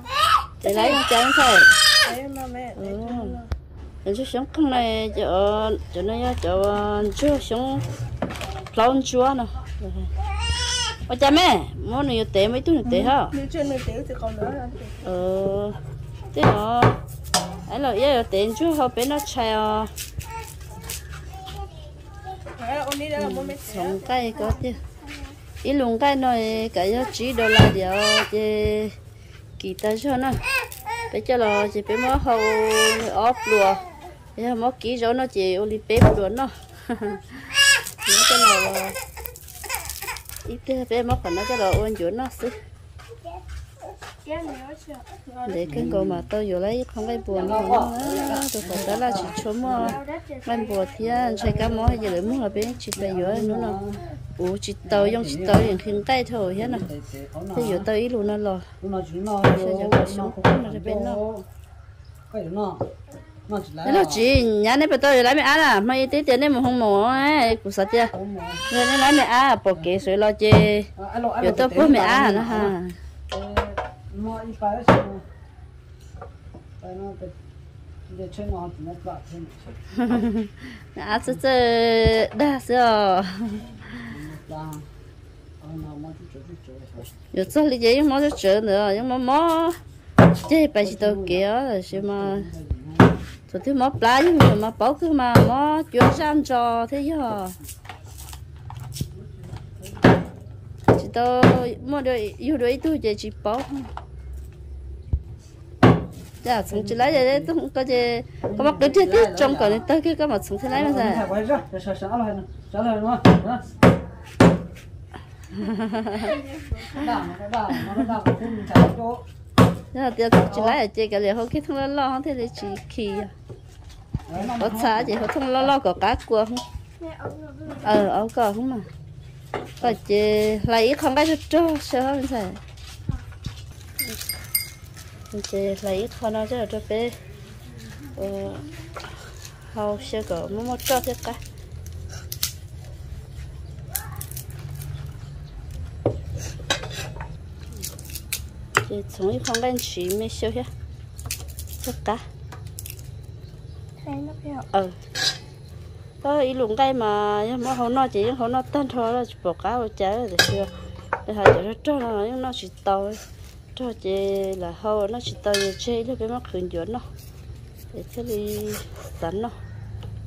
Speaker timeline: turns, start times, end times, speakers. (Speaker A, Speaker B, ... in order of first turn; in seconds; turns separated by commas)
Speaker A: 0.6-1.8, Speaker B: 0.7-1.0, Speaker B: 2.0-3.5, Speaker A: 2.8-3.4, Speaker A: 4.0-7.8, Speaker A: 8.7-10.1, Speaker A: 11.1-13.3, Speaker B: 12.9-15.0, Speaker A: 15.0-15.8, Speaker A: 16.3-17.0, Speaker A: 17.7-19.9, Speaker B: 22.5-24.3, Speaker A: 23.2-24.8, Speaker A: 25.6-28.9, Speaker A: 29.6-30.4, Speaker A: 31.1-33.8, Speaker A: 34.4-37.2, Speaker A: 38.1-39.0, Speaker A: 40.5-42.5, Speaker B: 44.2-45.5, Speaker A: 45.5-53.8, Speaker C: 45.7-46.1, Speaker C: 47.3-50.0, Speaker B: 49.8-52.2, Speaker C: 53.0-54.0, Speaker A: 54.4-56.9, Speaker C: 54.9-55.8, Speaker C: 56.7-57.9, Speaker A: 57.5-58.7, Speaker C: 58.8-61.5, Speaker A: 59.5-61.2, Speaker C: 62.3-62.9, Speaker C: 63.5-64.2, Speaker A: 63.8-68.1, Speaker C: 68.2-68.6, Speaker A: 68.7-70.9, Speaker C: 71.0-72.8, Speaker A: 71.4-73.0, Speaker C: 73.3-75.2, Speaker C: 76.8-77.3, Speaker C: 78.1-79.8, Speaker A: 80.0-83.8, Speaker C: 84.1-84.9, Speaker C: 85.6-87.1, Speaker A: 87.3-89.8, Speaker A: 90.5-92.5, Speaker C: 90.8-91.4, Speaker C: 92.1-93.1, Speaker A: 93.5-97.5, Speaker A: 101.0-103.9, Speaker A: 106.4-111.3, Speaker C: 106.7-107.5, Speaker C: 108.5-109.8, Speaker C: 110.7-113.6, Speaker A: 115.5-116.4, Speaker C: 117.0-119.2, Speaker A: 119.9-123.3, Speaker C: 124.3-125.2, Speaker A: 124.6-126.6, Speaker B: 127.0-127.9, Speaker A: 127.8-128.9, Speaker A: 129.8-132.6, Speaker A: 135.3-137.1, Speaker A: 138.2-138.7, Speaker A: 139.7-141.4, Speaker A: 148.9-150.7, Speaker A: 151.8-152.2, Speaker B: 154.0-154.7, Speaker A: 156.2-160.7, Speaker A: 161.3-163.2, Speaker A: 163.8-167.0, Speaker A: 167.9-169.5